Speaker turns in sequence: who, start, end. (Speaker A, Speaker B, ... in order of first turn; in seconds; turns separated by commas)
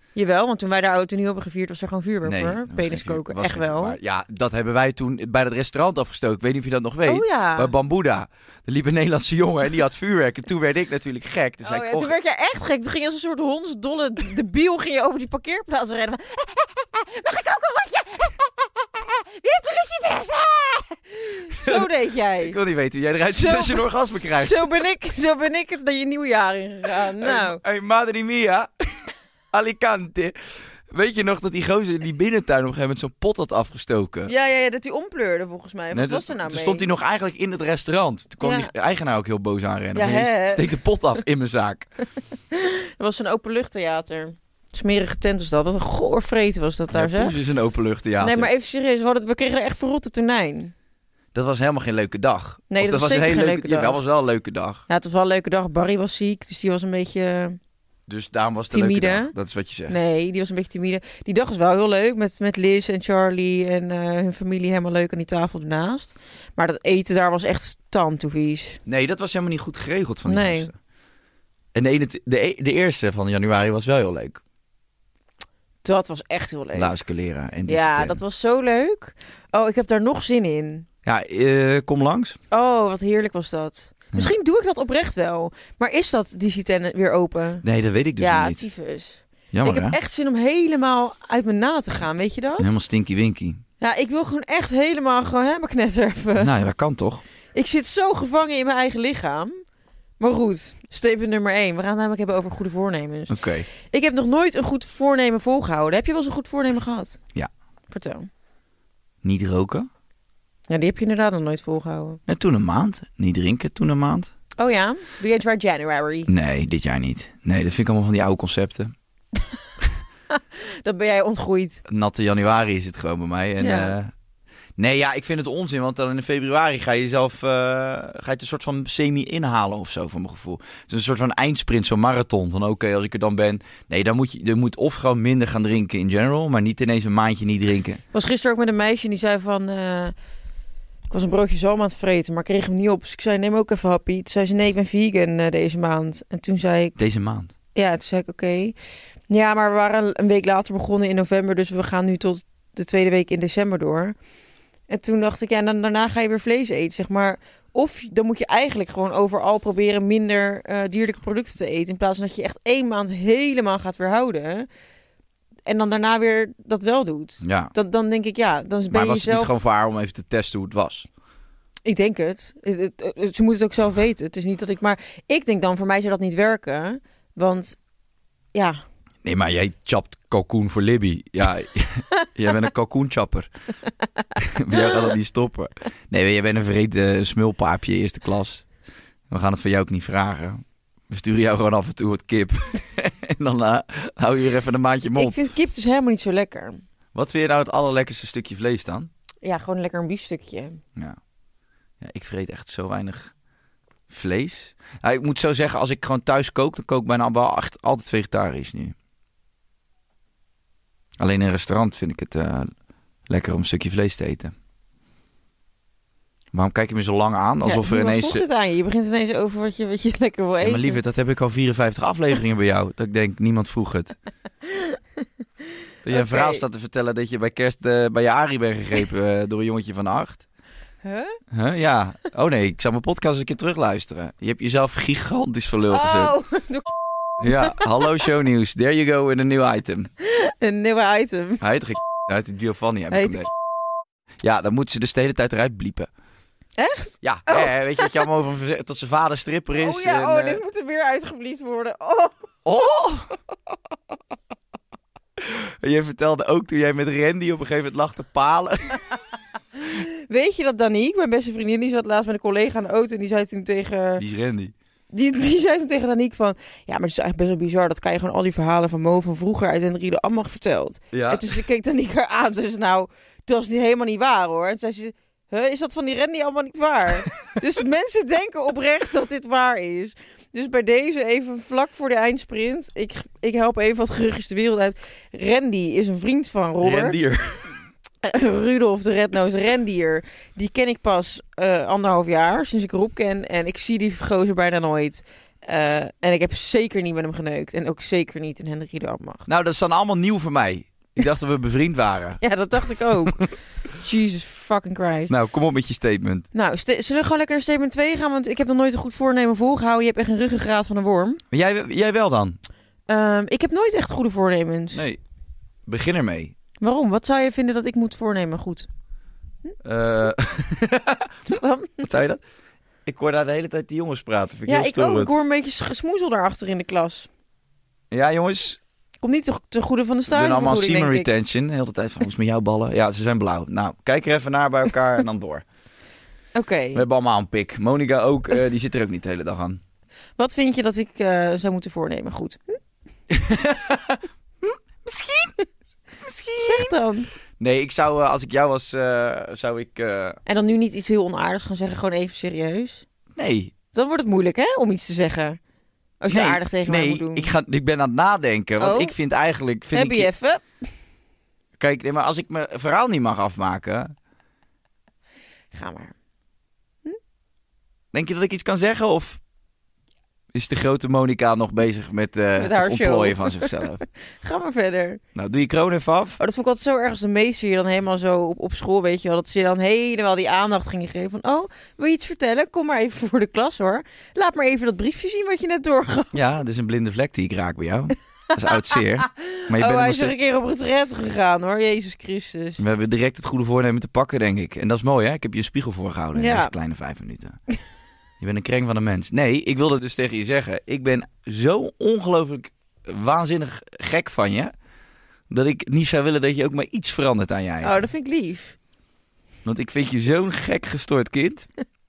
Speaker A: 0.2-4.0, Speaker B: 2.2-12.2, Speaker A: 7.1-7.7, Speaker A: 11.6-22.6, Speaker B: 21.6-21.9, Speaker B: 22.4-24.7, Speaker A: 23.2-23.9, Speaker A: 24.4-27.6, Speaker B: 27.2-28.7, Speaker B: 29.5-34.3, Speaker A: 34.3-36.9, Speaker B: 35.9-41.9, Speaker A: 38.4-38.7, Speaker A: 40.0-40.8, Speaker A: 42.5-47.4, Speaker B: 46.9-48.5, Speaker A: 48.2-50.7, Speaker B: 51.3-54.8, Speaker A: 52.7-54.0, Speaker A: 54.9-57.6, Speaker B: 58.1-60.0, Speaker A: 58.7-59.3, Speaker A: 59.9-68.8, Speaker B: 68.9-70.7, Speaker A: 70.3-70.7, Speaker B: 71.7-74.4, Speaker A: 75.8-76.9, Speaker B: 76.8-78.2, Speaker A: 77.7-80.9, Speaker B: 81.0-82.4, Speaker A: 82.5-87.7, Speaker B: 87.6-88.6, Speaker A: 88.2-92.8, Speaker B: 89.5-90.0, Speaker B: 92.6-93.6, Speaker A: 93.8-96.5, Speaker B: 96.4-97.2, Speaker A: 97.5-99.5, Speaker A: 100.2-107.2, Speaker B: 103.3-103.7, Speaker A: 107.9-108.3, Speaker B: 109.2-109.9, Speaker A: 110.7-112.2, Speaker B: 112.3-114.3, Speaker A: 114.6-116.3, Speaker B: 116.3-118.9, Speaker A: 120.3-121.8, Speaker B: 121.9-124.1, Speaker A: 123.6-123.9, Speaker B: 124.8-138.0, Speaker A: 138.1-140.1, Speaker A: 141.1-146.9, Speaker B: 147.0-147.5, Speaker A: 147.8-148.8, Speaker A: 149.3-154.2, Speaker A: 154.9-164.7, Speaker A: 165.7-169.6, Speaker B: 167.4-167.7, Speaker B: 168.9-171.1, Speaker A: 171.8-177.8, Speaker A: 178.5-178.8, Speaker B: 179.2-183.5, Speaker B: 184.4-188.7, Speaker B: 189.3-195.4, Speaker A: 195.2-196.8, Speaker B: 197.1-199.1, Speaker A: 199.4-200.8, Speaker B: 202.0-203.3, Speaker B: 204.1-208.9, Speaker B: 211.2-212.7, Speaker B: 213.3-214.5, Speaker B: 216.5-218.4, Speaker A: 217.6-221.0, Speaker B: 220.6-224.2, Speaker A: 224.7-225.0, Speaker B: 226.1-230.4, Speaker A: 226.1-226.6, Speaker A: 231.0-231.4, Speaker B: 231.5-236.3, Speaker A: 235.9-238.2, Speaker B: 237.4-240.1, Speaker A: 240.2-241.6, Speaker B: 241.6-243.5, Speaker A: 243.1-243.5, Speaker B: 244.4-246.1, Speaker A: 246.8-248.2, Speaker B: 247.2-250.6, Speaker A: 249.8-252.3, Speaker B: 252.7-253.3, Speaker B: 255.4-259.0, Speaker A: 259.8-264.2, Speaker B: 264.2-264.7, Speaker A: 265.1-287.3, Speaker B: 271.1-271.5, Speaker B: 286.8-287.6, Speaker A: 288.2-299.5, Speaker B: 299.5-302.4, Speaker A: 302.4-305.4, Speaker B: 305.3-306.5, Speaker A: 306.5-311.4, Speaker B: 311.5-312.6, Speaker A: 313.1-315.1, Speaker B: 314.9-315.2, Speaker B: 315.9-316.5, Speaker A: 316.8-318.9, Speaker B: 319.8-321.4, Speaker A: 321.5-322.1, Speaker B: 322.0-322.4, Speaker B: 323.1-325.3, Speaker A: 324.7-327.3, Speaker B: 328.1-328.8, Speaker A: 329.2-331.3, Speaker B: 330.3-335.6, Speaker A: 336.6-337.0, Speaker B: 336.9-339.8, Speaker A: 340.4-342.8, Speaker B: 343.3-345.6, Speaker B: 346.2-346.9, Speaker A: 346.6-347.3, Speaker B: 347.6-350.4, Speaker A: 350.5-353.1, Speaker B: 353.4-353.7, Speaker A: 353.9-355.6, Speaker A: 356.2-357.5, Speaker B: 356.3-360.3, Speaker A: 358.8-359.1, Speaker A: 359.9-360.6, Speaker B: 361.8-364.1, Speaker A: 365.7-366.1, Speaker B: 368.1-369.4, Speaker B: 370.5-374.0, Speaker A: 372.6-373.8, Speaker A: 374.4-375.2, Speaker B: 375.4-376.4, Speaker A: 376.4-386.4, Speaker B: 386.3-390.3, Speaker A: 388.8-392.8, Speaker B: 392.8-397.6, Speaker A: 396.4-396.7, Speaker B: 398.4-404.7, Speaker B: 405.5-408.0, Speaker A: 407.8-408.8, Speaker B: 409.6-411.7